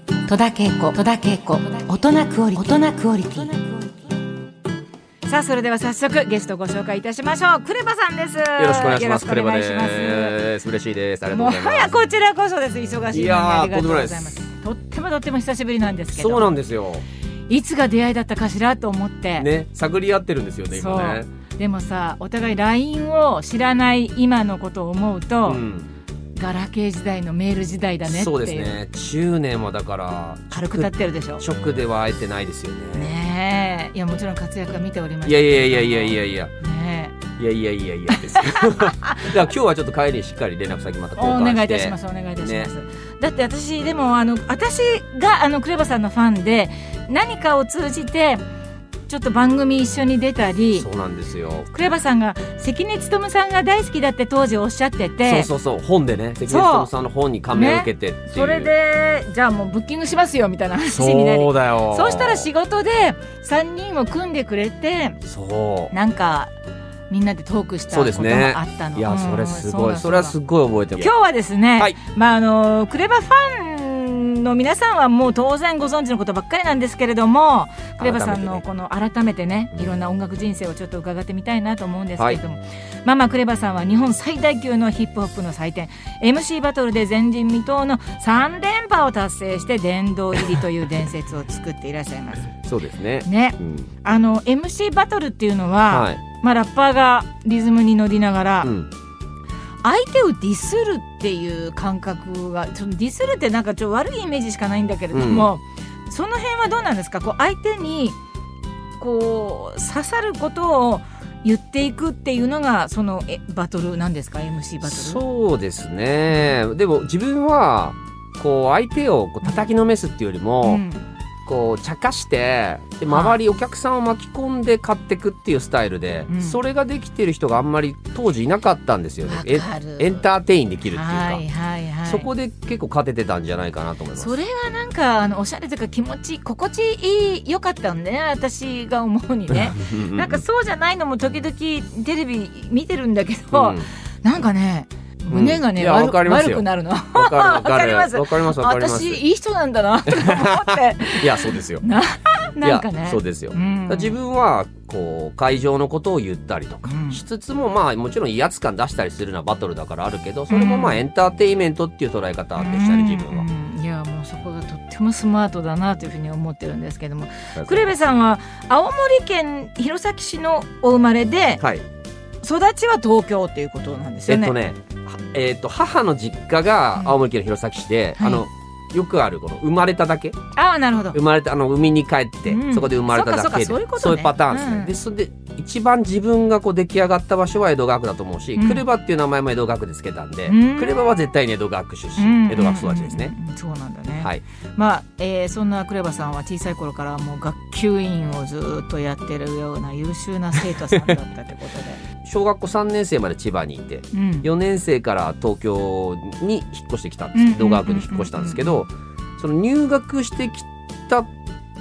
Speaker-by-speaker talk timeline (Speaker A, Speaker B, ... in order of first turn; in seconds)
Speaker A: 0.2-4.0
Speaker B: 5.3-10.4, 11.3-16.6, 17.5-19.5, 20.7-25.6, 26.4-28.8, 30.5-31.4, 32.9-37.2, 38.1-39.4, 41.1-48.4, 49.1-50.9, 51.7-55.5, 56.5-56.9, 57.5-65.2, 65.9-66.5, 67.1-70.3, 71.0-92.5, 93.2-98.7, 99.8-108.2, 109.0-115.2, 120.6-121.1, 123.1-123.4, 126.3-126.6, 129.3-130.3, 130.9-132.3, 134.2-154.2, 156.8-157.2, 160.5-161.1, 162.6-171.6, 172.4-174.6, 178.2-178.5, 180.6-181.2, 182.5-185.0, 188.6-188.8, 190.5-191.1, 192.2-202.0, 204.1-204.5, 207.3-208.8
Speaker C: 8.6-12.0, 13.1-14.4, 16.1-17.1, 19.4-21.3, 25.5-25.9, 28.1-33.2, 35.2-36.5, 37.4-42.7, 50.8-51.7, 55.2-58.7, 60.8-62.5, 65.3-65.9, 67.9-71.1, 78.0-78.6, 92.6-93.9, 95.9-96.2, 98.6-98.9, 105.1-105.5, 114.8-120.8, 121.5-131.4, 132.1-134.4, 139.5-140.4, 143.5-143.9, 145.3-149.2, 150.1-151.8, 152.6-163.5, 167.6-168.0, 174.3-180.4, 181.1-193.3, 202.2-211.3